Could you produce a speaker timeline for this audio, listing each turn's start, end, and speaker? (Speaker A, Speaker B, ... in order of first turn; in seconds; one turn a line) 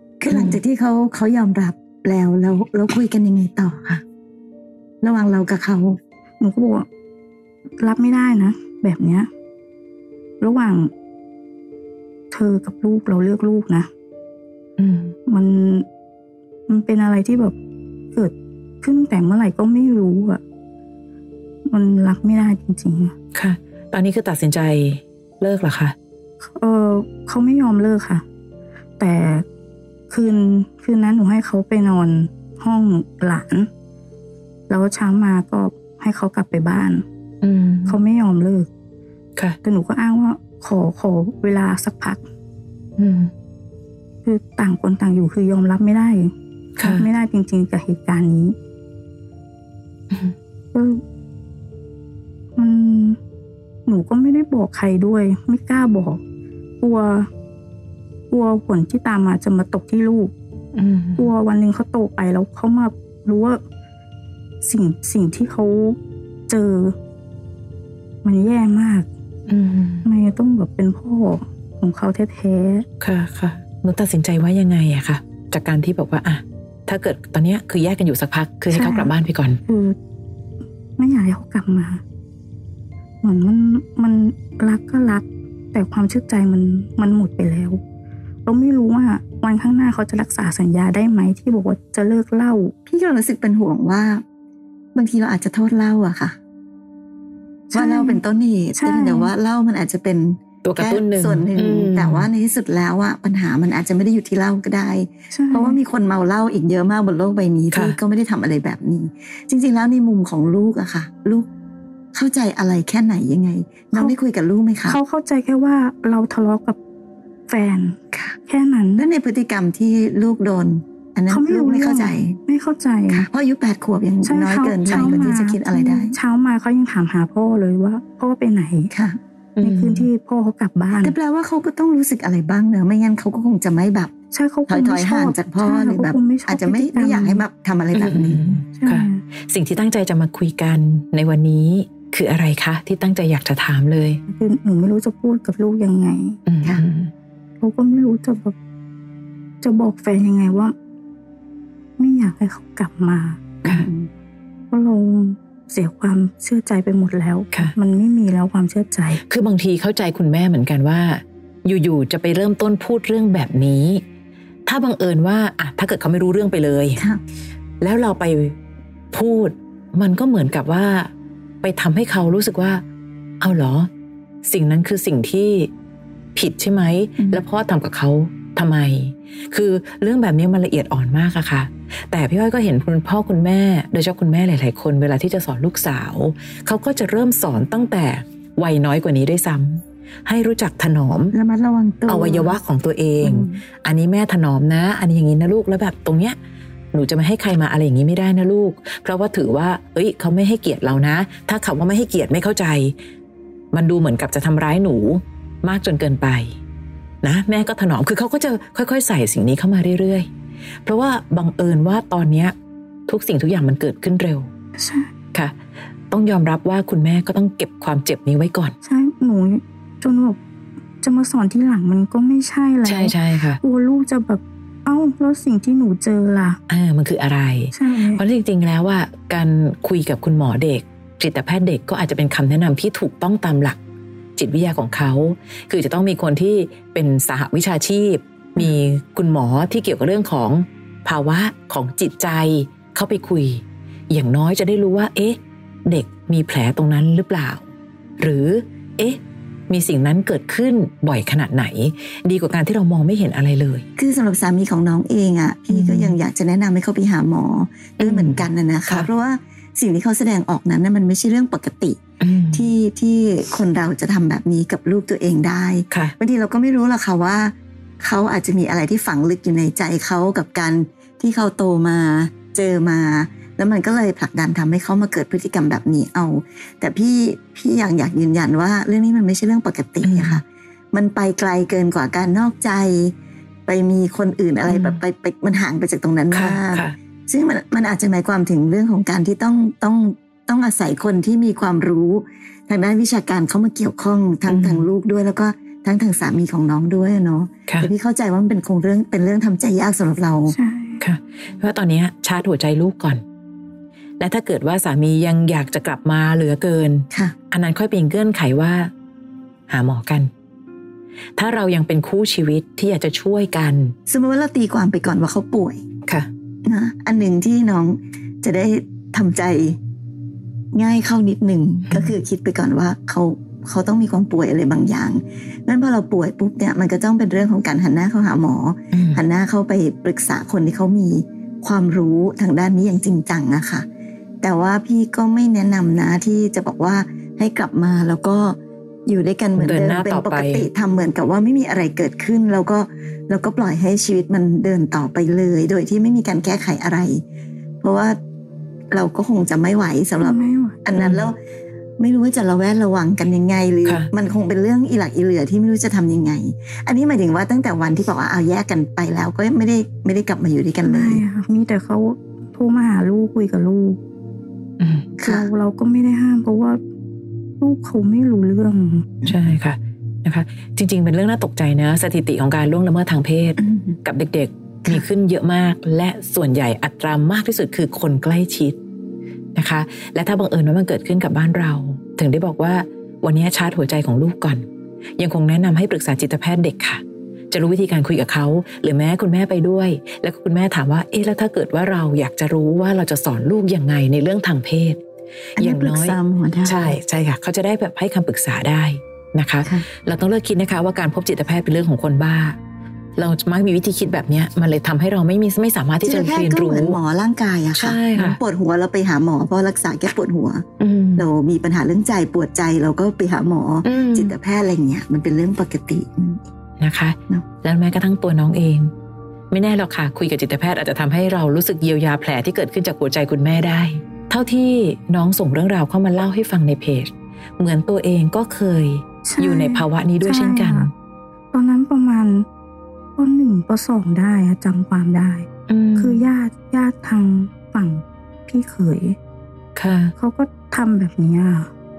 Speaker A: 0.2-4.0
Speaker B: 0.3-0.6
Speaker A: 5.0-6.0
Speaker C: 6.4-6.9
Speaker C: 7.8-9.3
Speaker C: 10.4-10.9
Speaker C: 12.3-13.9
Speaker B: 14.8-15.1
Speaker C: 15.3-15.8
Speaker C: 16.7-17.6
Speaker C: 18.1-20.4
Speaker C: 21.6-23.1
Speaker B: 23.3-25.9
Speaker C: 26.4-28.2
Speaker C: 29.0-29.4
Speaker C: 30.1-33.7
Speaker C: 34.7-37.0
Speaker B: 37.4-38.0
Speaker C: 37.9-38.7
Speaker C: 39.6-42.2
Speaker B: 43.0-43.3
Speaker C: 44.2-48.5
Speaker B: 46.8-47.1
Speaker C: 50.7-51.0
Speaker C: 52.5-53.2
Speaker C: 53.9-56.2
Speaker C: 56.8-57.3
Speaker C: 58.3-60.3
Speaker B: 60.7-61.3
Speaker C: 61.2-63.6
Speaker C: 64.6-66.0
Speaker C: 66.5-66.9
Speaker C: 68.2-69.1
Speaker B: 69.5-70.0
Speaker C: 70.0-72.8
Speaker B: 73.0-79.6
Speaker C: 78.7-79.1
Speaker C: 79.7-80.0
Speaker C: 81.0-82.0
Speaker C: 83.2-87.8
Speaker C: 88.4-92.7
Speaker A: 92.9-94.2
Speaker A: 94.9-96.3
Speaker C: 97.7-98.2
Speaker A: 97.7-111.5
Speaker C: 98.8-99.3
Speaker B: 100.6-102.3
Speaker C: 105.3-105.8
Speaker B: 107.7-108.0
Speaker A: 112.1-115.0
Speaker C: 114.9-116.8
Speaker C: 117.5-119.0
Speaker A: 118.1-118.4
Speaker A: 119.0-122.4
Speaker C: 121.3-123.2
Speaker A: 123.1-126.2
Speaker C: 124.2-128.9
Speaker B: 124.9-125.2
Speaker A: 128.9-129.2
Speaker B: 129.6-130.1
Speaker C: 129.6-131.1
Speaker A: 131.0-134.1
Speaker C: 134.3-137.4
Speaker A: 134.7-138.6
Speaker B: 137.9-144.2
Speaker C: 138.7-139.2
Speaker C: 144.3-146.4
Speaker B: 146.4-147.1
Speaker C: 147.6-148.5
Speaker C: 149.6-150.7
Speaker C: 152.0-153.5
Speaker A: 153.6-154.1
Speaker C: 154.7-159.2
Speaker B: 159.2-164.0
Speaker B: 164.7-167.0
Speaker B: 167.8-168.6
Speaker B: 169.1-171.1
Speaker B: 171.6-172.8
Speaker B: 173.4-173.9
Speaker B: 174.4-175.7
Speaker B: 176.3-191.3
Speaker A: 191.3-192.6
Speaker B: 192.1-196.3
Speaker A: 193.2-193.6
Speaker B: 196.9-202.9
Speaker B: 203.7-206.5
Speaker B: 207.2-210.3
Speaker B: 210.8-212.5
Speaker B: 213.1-214.5
Speaker C: 214.8-215.1
Speaker B: 216.1-218.7
Speaker C: 218.8-220.4
Speaker C: 221.0-226.6
Speaker B: 222.8-223.6
Speaker B: 226.7-233.8
Speaker C: 227.7-228.2
Speaker B: 234.4-247.6
Speaker B: 248.2-249.2
Speaker B: 249.7-253.8
Speaker A: 254.0-283.1
Speaker B: 255.7-256.2
Speaker B: 258.0-259.1
Speaker B: 262.2-262.7
Speaker B: 280.0-280.4
Speaker A: 283.7-300.5
Speaker B: 284.7-285.0
Speaker B: 286.3-286.9
Speaker B: 294.5-294.9
Speaker C: 300.5-301.0
Speaker B: 301.0-303.2
Speaker B: 304.2-308.9
Speaker B: 309.7-310.3
Speaker B: 311.4-313.9
Speaker A: 314.1-315.8
Speaker A: 316.6-319.8
Speaker A: 320.7-333.9
Speaker B: 321.9-322.1
Speaker B: 328.9-329.2
Speaker A: 334.4-347.2
Speaker B: 339.6-340.7
Speaker A: 347.8-348.2
Speaker A: 348.9-351.4
Speaker C: 350.2-350.8
Speaker B: 351.0-351.3
Speaker A: 352.0-361.2
Speaker C: 360.8-364.0
Speaker B: 364.8-365.1
Speaker A: 365.2-365.5
Speaker C: 365.2-366.8
Speaker C: 367.6-369.1
Speaker B: 369.2-378.8
Speaker B: 379.6-384.6
Speaker B: 385.2-395.0
Speaker B: 395.6-402.6
Speaker A: 395.6-397.0
Speaker B: 403.2-407.0
Speaker A: 406.0-410.6
Speaker B: 407.8-408.4
Speaker B: 410.8-411.2
Speaker A: 411.1-416.4
Speaker B: 413.8-414.3
Speaker B: 416.8-418.9
Speaker B: 419.5-430.9
Speaker C: 429.2-430.9
Speaker C: 431.5-432.5
Speaker C: 433.1-439.2
Speaker B: 435.7-436.2
Speaker B: 439.8-440.1
Speaker C: 440.2-441.7